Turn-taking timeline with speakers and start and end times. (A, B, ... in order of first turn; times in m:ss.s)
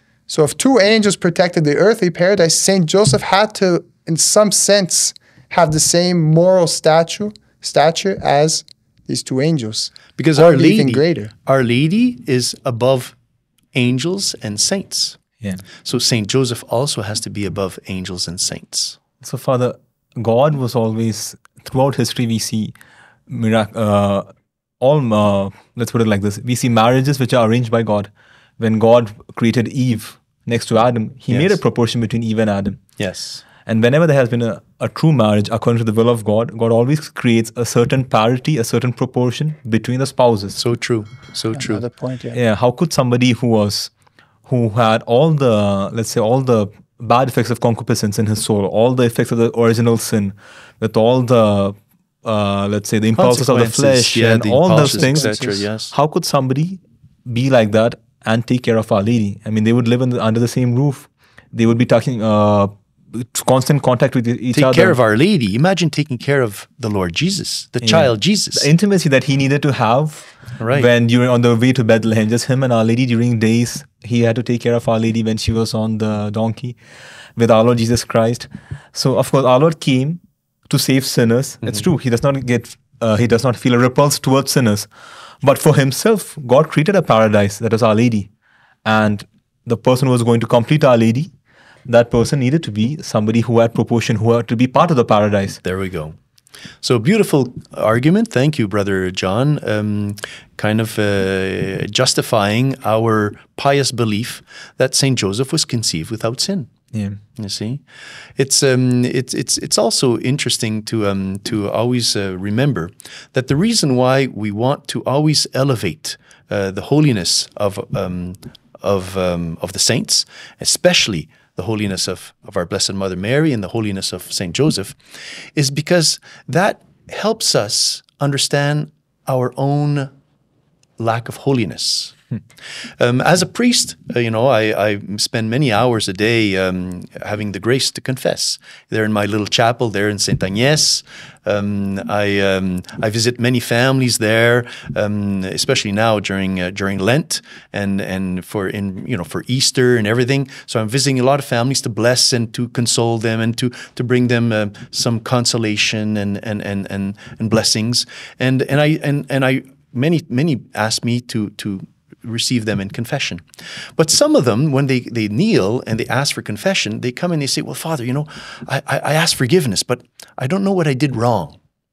0:00.3-0:11.3 A
0:10.2-0:13.2 B
0:13.7-0:15.2 B
0:15.8-0:19.0 B
0:19.2-0:22.7 C
0:23.3-0:24.3 C
0:24.8-0:32.8 C
0:33.0-0:33.4 B
0:33.6-0:40.6 C
0:40.6-0:41.8 B
0:41.5-0:42.4 A
0:42.3-0:43.9 C
0:44.5-1:05.0 C
0:53.2-0:55.9 B
0:54.8-0:55.3 A
1:04.5-1:08.7 B
1:07.8-1:16.8 C
1:10.6-1:10.9 B
1:17.4-1:24.9 C
1:25.4-1:28.3 C
1:28.8-1:31.3 C
1:31.9-1:35.6 C
1:35.6-1:36.2 B
1:36.8-1:46.7 B
1:46.9-1:47.2 C
1:47.4-1:47.8 B
1:48.4-2:05.0 B
2:05.6-2:10.1 B
2:11.0-2:12.2 B
2:13.0-2:43.4 B
2:44.0-2:51.6 B